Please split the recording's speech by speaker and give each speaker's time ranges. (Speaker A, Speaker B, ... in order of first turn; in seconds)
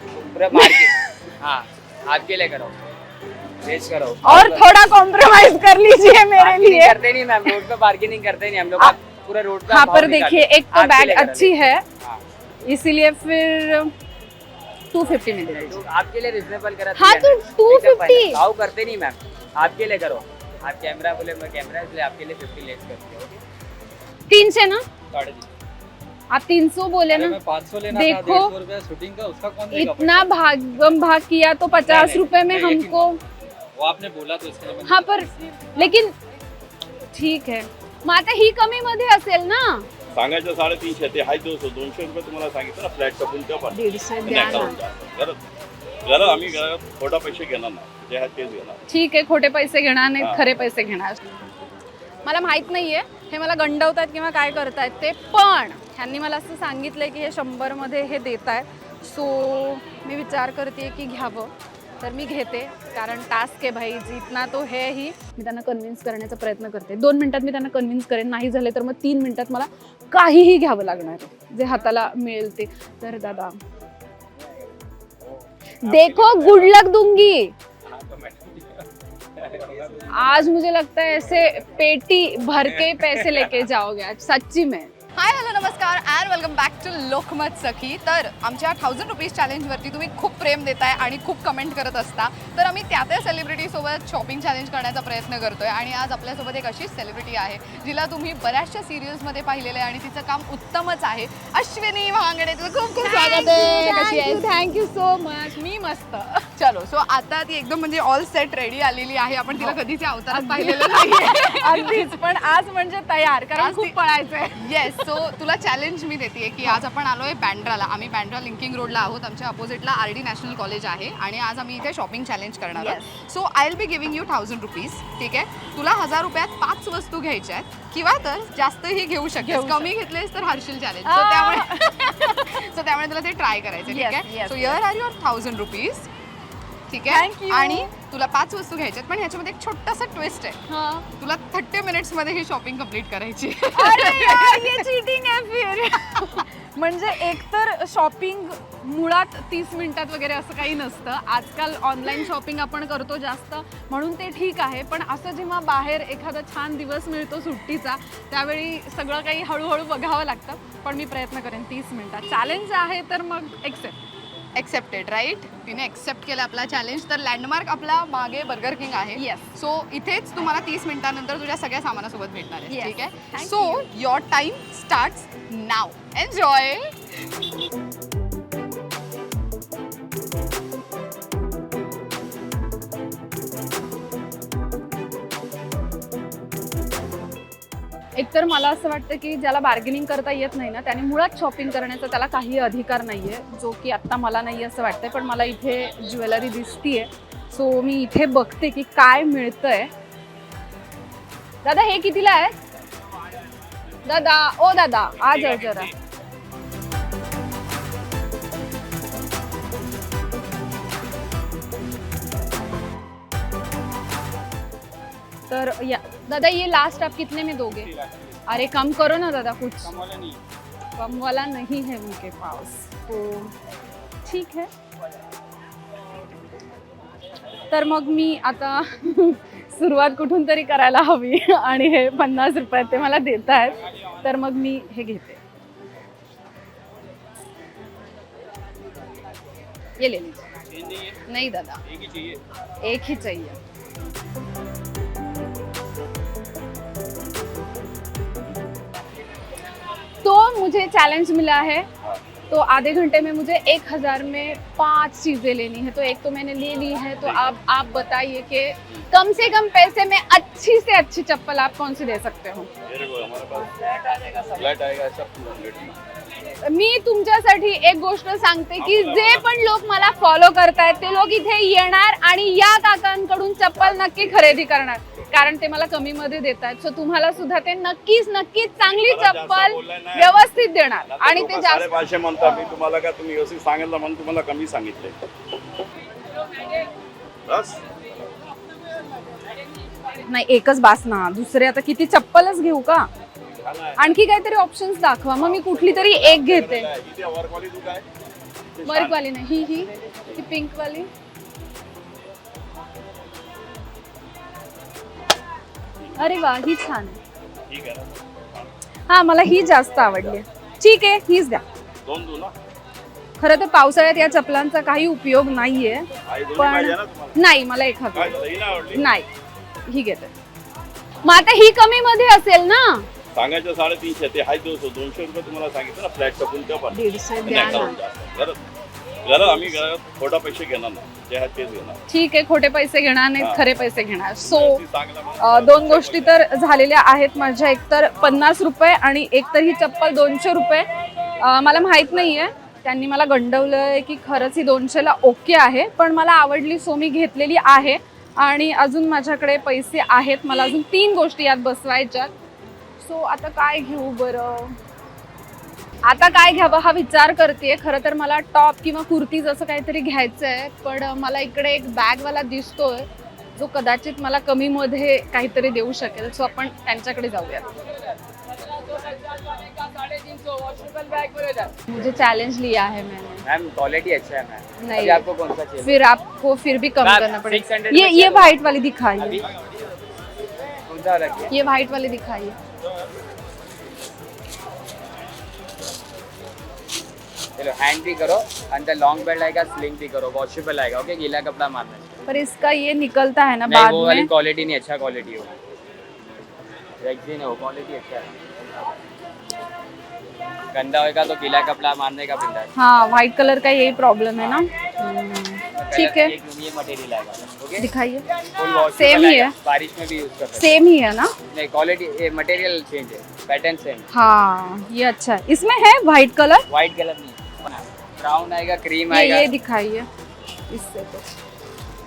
Speaker A: 0.3-0.7, 1.4-2.7, 3.6-4.5, 7.0-10.1, 10.8-11.1, 15.8-17.1, 17.8-23.4, 370.2-371.5, 373.5-374.7, 375.3-375.8, 380.9-381.5, 387.6-392.1, 393.8-395.4, 397.0-398.3, 400.7-402.6, 405.8-407.6, 408.6-410.6, 411.5-414.0, 416.7-417.4, 418.2-418.9
Speaker B: 0.5-0.9, 4.2-7.6, 9.7-11.8, 12.6-13.9, 14.9-15.8, 16.9-18.4, 24.3-24.8, 26.3-27.4, 27.9-28.5, 29.7-33.2, 34.8-36.1, 37.1-39.9, 43.7-44.8, 48.9-51.2, 52.2-73.5, 75.8-77.5, 80.1-84.9, 103.0-106.5, 110.3-115.1, 122.7-123.1, 129.4-129.9, 131.0-132.6, 133.9-134.8, 137.1-137.9, 140.7-141.1, 143.7-164.0, 169.1-169.6, 172.7-173.9, 188.2-199.9, 201.6-202.5, 204.0-205.9, 215.5-217.9, 218.4-219.9, 220.9-223.5, 224.2-224.7, 227.7-235.4, 240.0-240.4, 241.1-241.8, 242.8-243.6, 250.2-251.9, 252.5-262.7, 266.6-282.0, 290.2-293.1, 294.0-296.9, 298.8-301.1, 306.1-307.2, 309.1-311.6, 313.4-319.3, 319.9-320.3, 321.2-323.1, 326.9-328.0, 332.1-334.8, 335.4-340.9, 341.4-352.3, 353.0-354.8, 356.0-367.7, 371.9-373.4, 374.8-379.4, 381.5-382.6, 392.3-394.3, 402.7-406.4, 407.8-408.2, 408.8-409.6, 410.6-411.4, 414.1-416.6, 419.1-420.1, 420.7-421.3
Speaker C: 25.1-25.5, 27.1-30.3, 31.8-33.2, 33.7-35.1, 75.9-76.6, 77.8-78.8, 79.4-80.2, 82.7-83.5
Speaker D: 40.1-45.4, 46.0-48.8, 241.9-242.3, 262.9-266.0, 268.8-269.4, 278.8-280.4, 281.1-285.2, 287.4-287.9, 293.6-294.0, 295.4-298.1, 298.8-299.1, 307.7-308.7, 312.0-312.5, 316.2-317.4, 318.1-319.0, 323.3-328.6, 329.2-332.0, 333.4-333.6, 334.4-336.4
Speaker E: 85.2-104.5, 106.6-112.1, 113.6-113.9, 114.5-136.1, 136.9-140.6, 141.2-144.8, 164.5-177.2